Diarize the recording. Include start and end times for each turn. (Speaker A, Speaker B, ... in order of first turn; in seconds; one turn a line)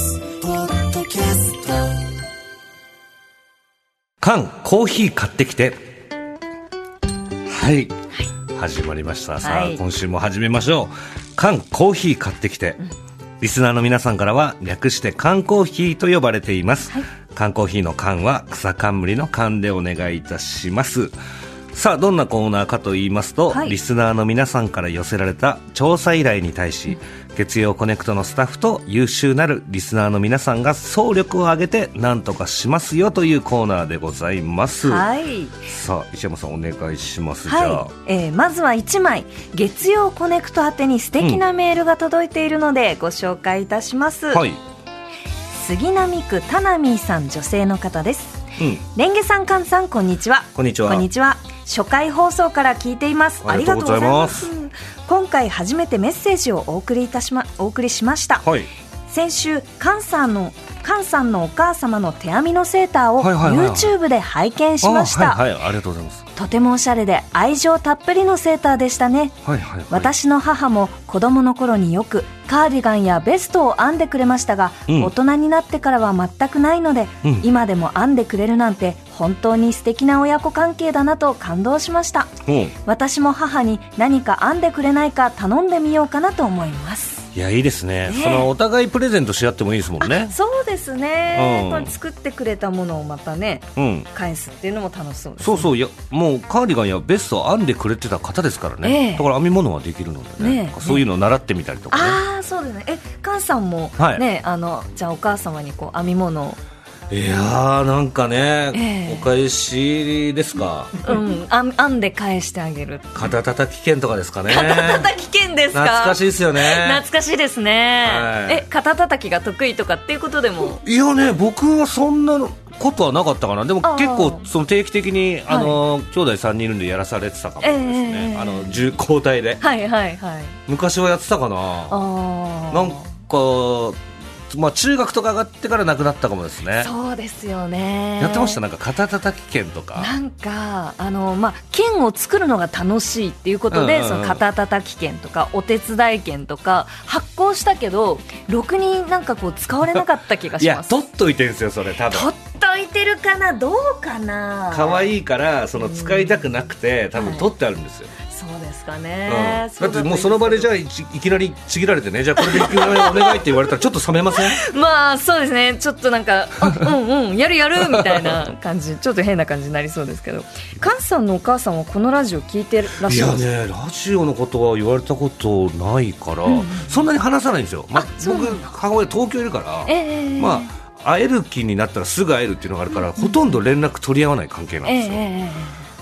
Speaker A: 0.8-1.5
Speaker B: 4.2-5.8
Speaker B: 7.5-8.0
Speaker B: 8.5-12.8
Speaker A: 9.4-9.8
Speaker B: 13.4-21.1
Speaker B: 21.7-35.1
Speaker A: 23.5-23.8
Speaker A: 34.8-35.7
Speaker B: 35.7-37.9
Speaker A: 37.5-44.4
Speaker B: 41.2-41.4
Speaker B: 44.3-44.6
Speaker A: 45.5-58.5
Speaker B: 50.5-51.0
Speaker B: 53.4-54.5
Speaker B: 58.4-58.7
Speaker A: 59.1-65.4
Speaker B: 63.2-63.9
Speaker B: 64.8-66.3
Speaker A: 66.3-69.4
Speaker B: 69.4-70.1
Speaker A: 69.9-87.3
Speaker B: 74.9-75.1
Speaker B: 82.4-82.7
Speaker B: 87.3-90.3
Speaker A: 88.0-88.5
Speaker A: 90.0-95.7
Speaker B: 91.3-91.9
Speaker B: 93.8-94.1
Speaker B: 95.4-102.2
Speaker A: 98.8-99.3
Speaker A: 100.4-101.0
Speaker A: 101.9-106.6
Speaker B: 104.0-104.2
Speaker B: 107.1-111.0
Speaker A: 108.7-109.3
Speaker A: 111.0-113.1
Speaker B: 113.1-115.1
Speaker A: 114.5-120.8
Speaker B: 115.7-117.0
Speaker B: 118.0-118.6
Speaker B: 120.8-129.6
Speaker A: 123.8-124.5
Speaker A: 125.5-125.8
Speaker A: 127.6-128.8
Speaker A: 129.6-130.6
Speaker B: 130.7-132.0
Speaker A: 131.9-133.1
Speaker B: 132.7-136.9
Speaker A: 136.8-138.6
Speaker B: 138.2-140.1
Speaker A: 139.9-151.0
Speaker B: 143.7-144.4
Speaker B: 150.6-152.3
Speaker A: 152.1-155.1
Speaker B: 154.7-158.1
Speaker A: 155.8-156.4
Speaker A: 157.1-157.5
Speaker A: 158.3-160.7
Speaker B: 159.2-164.6
Speaker A: 162.4-163.6
Speaker A: 164.3-173.4
Speaker B: 167.8-168.4
Speaker B: 173.0-185.2
Speaker A: 176.4-177.0
Speaker A: 177.9-178.7
Speaker A: 179.8-180.7
Speaker A: 184.8-185.8